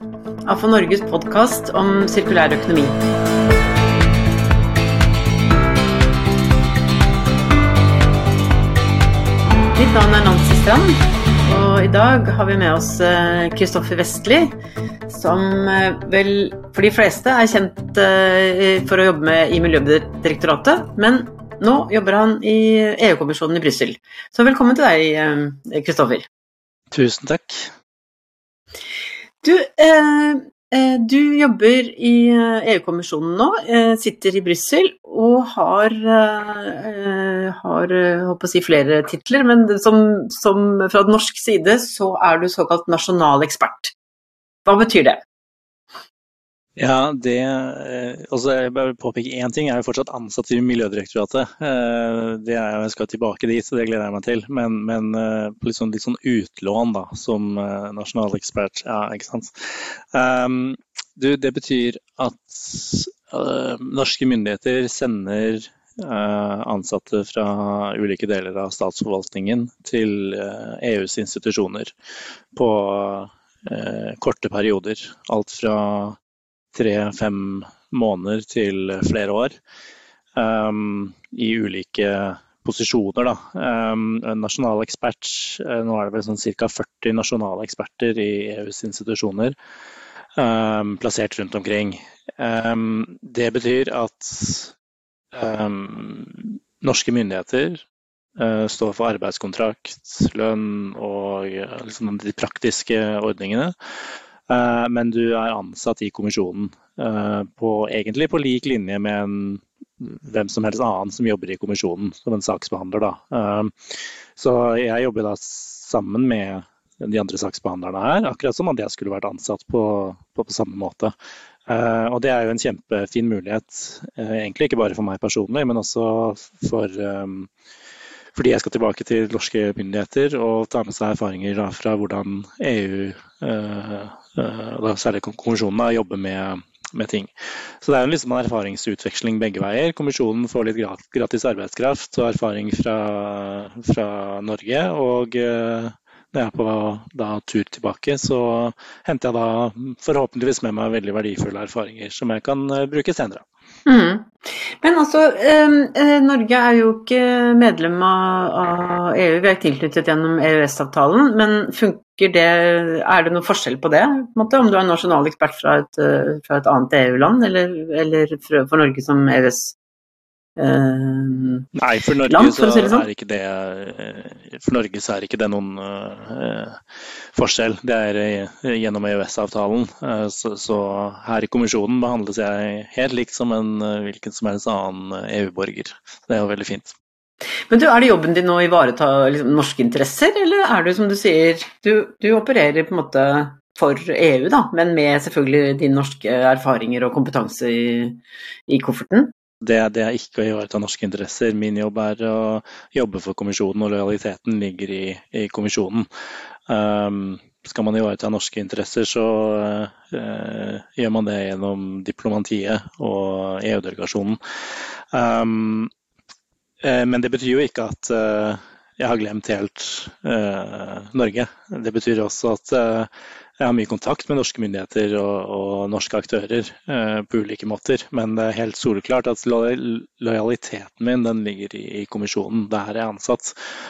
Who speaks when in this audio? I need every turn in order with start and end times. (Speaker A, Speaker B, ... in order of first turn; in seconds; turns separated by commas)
Speaker A: 0.5-3.0, Speaker A: 9.8-14.5, Speaker A: 15.1-26.3, Speaker B: 26.9-27.7, Speaker A: 29.4-43.9, Speaker A: 44.7-45.2, Speaker B: 46.8-71.9, Speaker B: 72.5-76.2, Speaker B: 76.7-79.5, Speaker B: 80.4-89.5, Speaker B: 90.4-94.7, Speaker B: 95.3-97.8, Speaker B: 98.4-103.7, Speaker B: 104.5-121.1, Speaker B: 121.7-127.5, Speaker B: 128.3-153.4, Speaker A: 153.9-169.8, Speaker A: 170.6-171.7, Speaker B: 171.8-176.8, Speaker A: 172.3-173.1, Speaker B: 177.3-186.9, Speaker A: 187.7-199.3, Speaker B: 199.6-206.1, Speaker B: 206.7-215.9, Speaker B: 216.8-233.6